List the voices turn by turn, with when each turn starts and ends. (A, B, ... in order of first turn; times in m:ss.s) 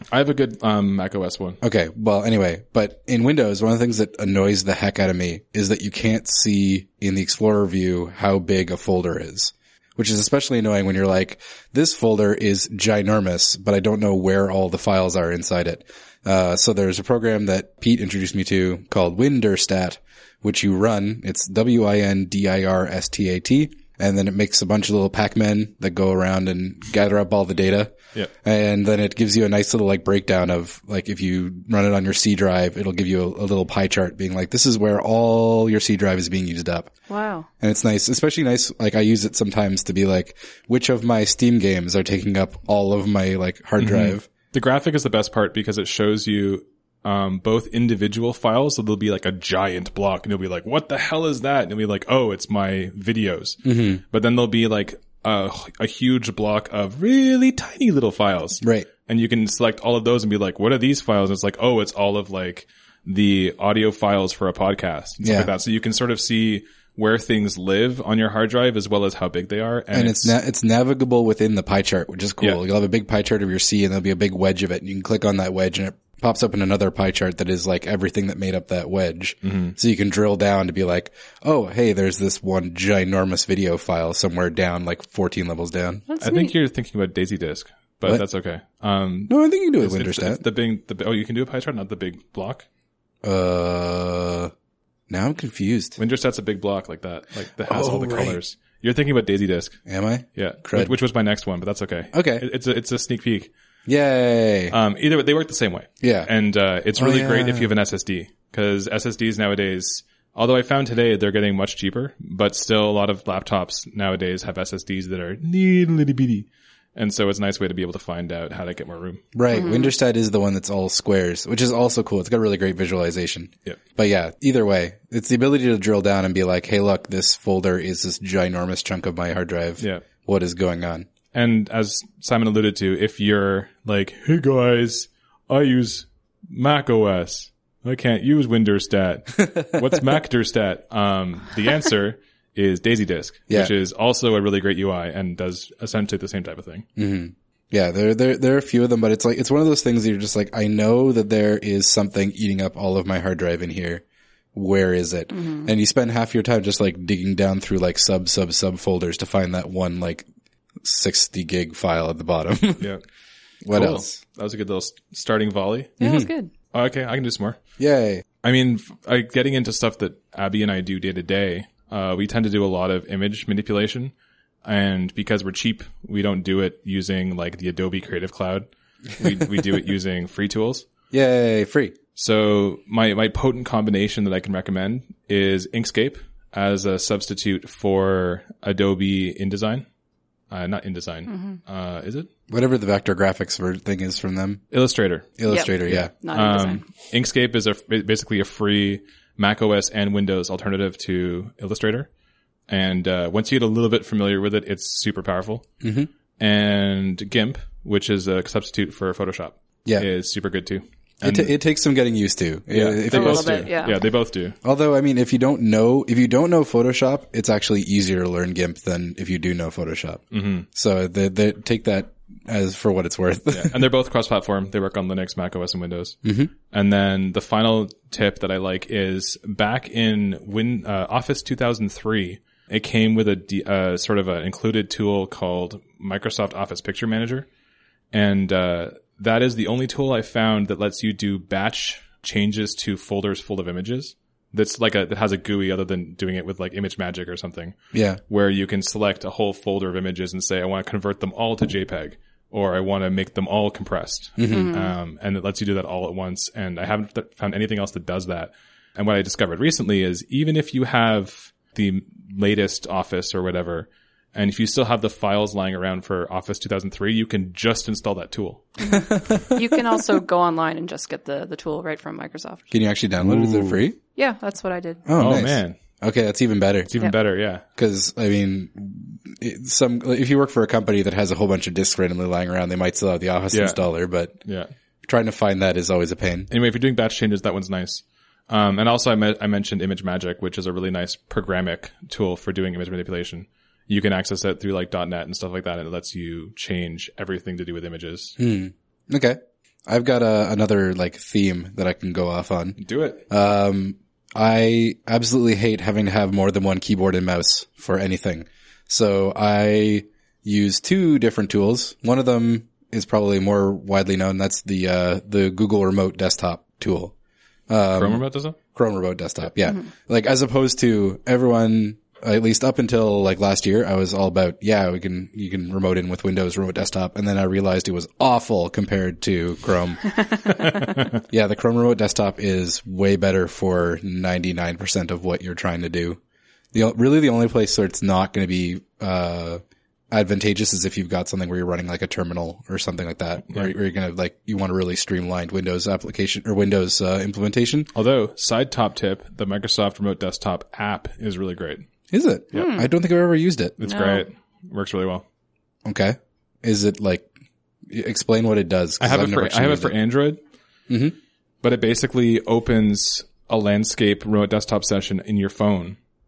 0:00.1-0:01.6 A
0:01.6-0:36.9 B
0:37.1-0:37.5 C
0:37.6-0:44.3 B
0:43.8-1:10.4 A
0:53.6-0:54.0 B
0:58.6-0:58.9 B
1:05.2-1:05.5 B
1:09.9-1:26.0 B
1:19.4-1:19.8 A
1:26.1-1:26.5 C
1:26.2-1:32.6 A
1:29.3-1:30.4 B
1:33.2-1:34.5 B
1:35.1-1:36.0 B
1:36.0-1:39.8 A
1:37.6-1:38.4 B
1:39.9-1:40.9 B
1:40.4-1:43.5 A
1:42.1-1:42.4 B
1:43.9-1:44.7 B
1:44.7-1:59.2 A
1:46.0-1:46.3 B
1:47.0-1:47.7 B
1:59.3-2:11.1 B
1:59.5-1:59.9 C
2:11.3-2:26.8 A
2:27.0-2:34.0 B
2:34.5-2:40.2 B
2:35.3-2:35.7 C
2:40.8-2:42.9 B
2:42.8-2:43.0 A
2:43.6-2:44.2 B
2:43.7-2:46.0 A
2:46.0-2:46.5 C
2:46.0-2:46.3 B
2:46.7-2:47.6 A
2:47.8-2:48.2 B
2:48.4-2:54.1 A
2:54.6-3:00.8 A
3:01.1-3:02.0 B
3:02.2-3:09.8 A
3:10.5-3:12.3 A
3:11.3-3:11.6 C
3:12.5-3:14.6 B
3:14.7-3:15.3 A
3:15.4-3:16.1 B
3:15.5-3:16.8 C
3:15.9-3:22.1 A
3:22.7-3:25.6 A
3:25.8-3:26.1 B
3:26.4-3:31.5 A
3:31.2-3:33.7 B
3:32.7-3:34.6 A
3:33.1-3:34.0 C
3:34.6-3:43.8 B
3:40.3-3:40.6 A
3:43.5-3:46.2 A
3:46.2-3:46.5 B
3:46.7-3:57.5 A
3:58.1-4:07.7 A
4:07.9-4:08.2 B
4:08.3-4:28.7 A
4:14.4-4:14.7 B
4:14.5-4:14.9 C
4:28.8-4:32.7 C
4:29.0-4:29.4 B
4:32.7-4:34.0 B
4:33.2-4:33.8 A
4:34.2-4:35.0 C
4:35.0-4:36.9 B
4:35.2-4:35.8 A
4:36.9-4:37.6 A
4:37.7-4:44.3 B
4:43.5-4:43.8 A
4:44.4-4:44.7 A
4:45.0-4:46.5 B
4:46.5-4:58.4 A
4:58.4-5:02.8 B
5:02.8-5:03.2 A
5:03.3-5:17.1 B
5:17.7-5:30.2 B
5:17.9-5:18.6 A
5:31.2-5:36.2 B
5:36.7-5:47.9 B
5:47.9-5:51.9 A
5:52.1-5:53.8 B
5:52.5-5:52.9 C
5:53.8-5:55.2 A
5:53.8-5:54.2 C
5:55.8-5:57.3 B
5:57.9-5:59.9 B
5:59.0-6:00.4 A
6:00.9-6:01.2 B
6:01.6-6:06.0 A